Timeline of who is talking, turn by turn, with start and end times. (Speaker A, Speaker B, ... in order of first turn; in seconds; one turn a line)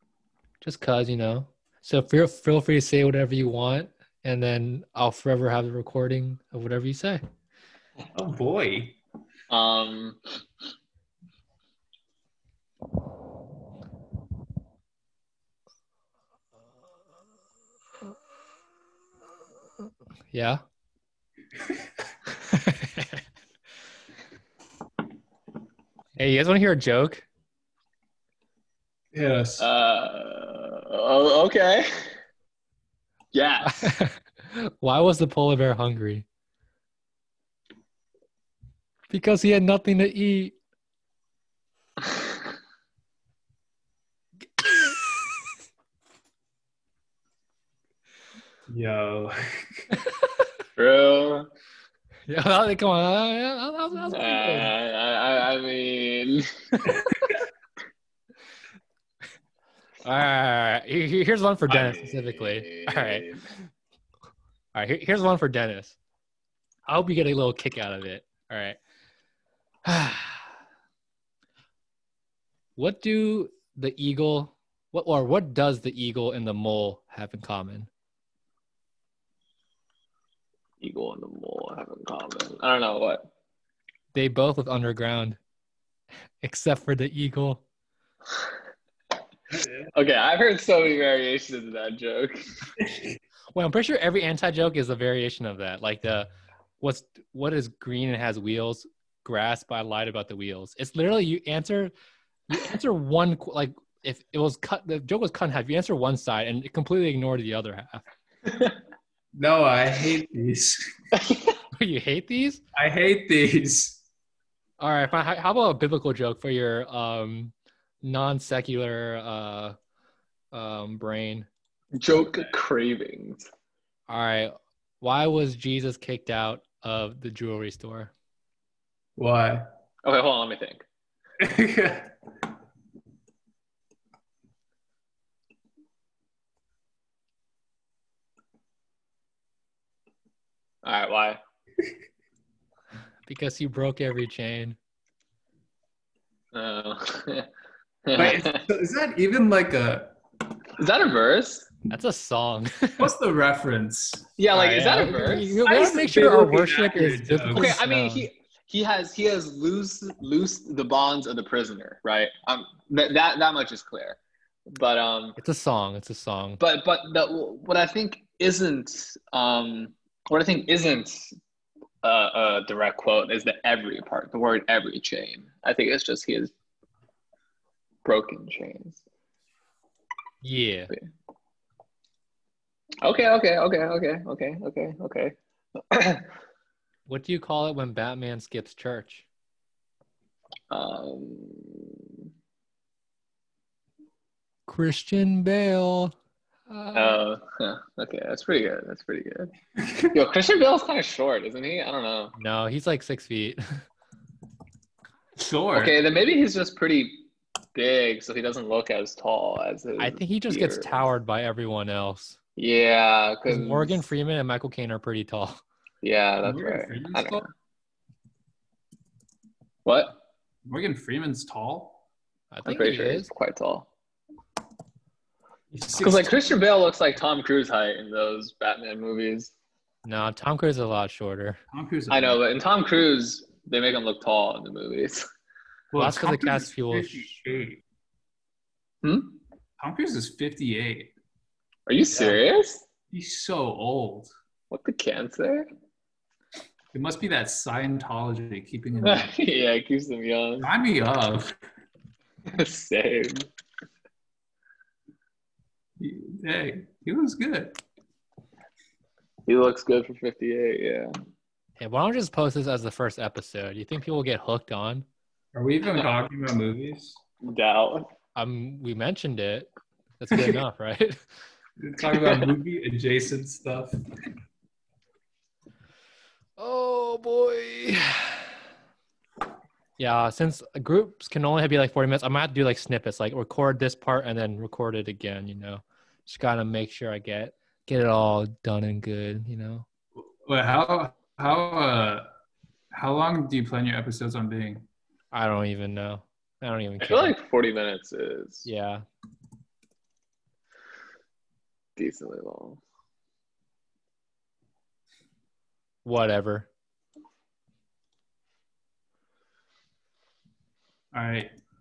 Speaker A: 0.6-7.2
Speaker B: 8.2-9.0
Speaker C: 9.5-10.2
Speaker A: 20.3-20.6
Speaker A: 22.3-23.2
Speaker A: 26.2-27.3
Speaker B: 29.1-29.7
Speaker C: 29.6-31.9
Speaker C: 33.3-33.9
Speaker A: 33.7-36.3
Speaker A: 39.1-40.6
Speaker A: 44.6-45.0
Speaker B: 48.7-49.9
Speaker C: 50.8-51.5
Speaker A: 52.3-54.7
Speaker C: 54.1-56.5
Speaker A: 60.0-63.3
Speaker C: 61.7-63.4
Speaker A: 64.7-66.0
Speaker A: 66.9-68.8
Speaker A: 69.8-70.5
Speaker A: 72.8-77.9
Speaker C: 80.8-83.3
Speaker A: 84.1-85.4
Speaker A: 86.4-87.6
Speaker B: 89.6-89.9
Speaker C: 89.9-92.4
Speaker B: 92.8-93.2
Speaker A: 93.5-101.9
Speaker A: 102.5-108.0
Speaker C: 108.5-108.7
Speaker B: 109.4-110.8
Speaker C: 111.2-111.4
Speaker A: 111.8-112.6
Speaker B: 112.8-114.0
Speaker A: 114.8-119.8
Speaker A: 120.5-121.5
Speaker C: 122.0-123.5
Speaker B: 122.2-122.5
Speaker A: 124.1-128.1
Speaker B: 129.2-129.7
Speaker C: 130.0-130.8
Speaker B: 131.4-132.1
Speaker C: 140.8-141.4
Speaker A: 143.3-144.8
Speaker C: 146.5-147.5
Speaker C: 148.1-148.6
Speaker B: 148.2-150.2
Speaker C: 150.8-151.7
Speaker A: 151.9-153.1
Speaker B: 153.0-154.3
Speaker C: 154.4-156.5
Speaker A: 154.5-158.3
Speaker B: 155.7-157.7
Speaker C: 157.5-165.4
Speaker A: 165.4-166.6
Speaker C: 166.6-171.4
Speaker C: 172.0-176.5
Speaker C: 178.0-179.0
Speaker A: 180.4-180.9
Speaker C: 183.0-185.4
Speaker C: 185.9-186.2
Speaker A: 187.1-189.3
Speaker C: 190.7-192.0
Speaker A: 194.7-196.2
Speaker A: 196.7-197.2
Speaker C: 196.9-199.5
Speaker C: 200.1-202.3
Speaker A: 202.4-203.8
Speaker B: 205.4-206.0
Speaker C: 205.7-211.1
Speaker A: 210.0-212.4
Speaker C: 212.6-214.1
Speaker A: 213.5-215.6
Speaker C: 216.0-217.5
Speaker B: 216.4-217.4
Speaker C: 219.8-220.2
Speaker B: 220.7-222.0
Speaker A: 222.5-223.3
Speaker C: 222.7-223.9
Speaker B: 225.7-226.5
Speaker C: 226.0-229.5
Speaker A: 230.1-231.6
Speaker B: 231.7-232.4
Speaker C: 232.1-235.2
Speaker B: 235.9-237.8
Speaker A: 236.0-237.3
Speaker C: 239.0-239.4
Speaker B: 239.8-241.1
Speaker C: 241.9-242.8
Speaker B: 243.1-244.3
Speaker C: 244.7-245.7
Speaker B: 246.9-249.3
Speaker C: 249.0-250.7
Speaker B: 250.6-251.6
Speaker C: 252.5-253.5
Speaker B: 256.0-257.8
Speaker C: 259.5-261.1
Speaker A: 261.8-265.1
Speaker B: 265.5-267.2
Speaker C: 267.4-268.1
Speaker A: 268.4-271.2
Speaker B: 271.8-274.0
Speaker C: 272.2-272.4
Speaker A: 276.6-278.4
Speaker A: 280.0-289.9
Speaker B: 290.5-292.3
Speaker B: 292.9-294.9
Speaker A: 295.3-297.4
Speaker C: 297.0-298.7
Speaker A: 298.6-299.0
Speaker C: 302.0-302.8
Speaker A: 306.1-306.7
Speaker B: 311.1-311.5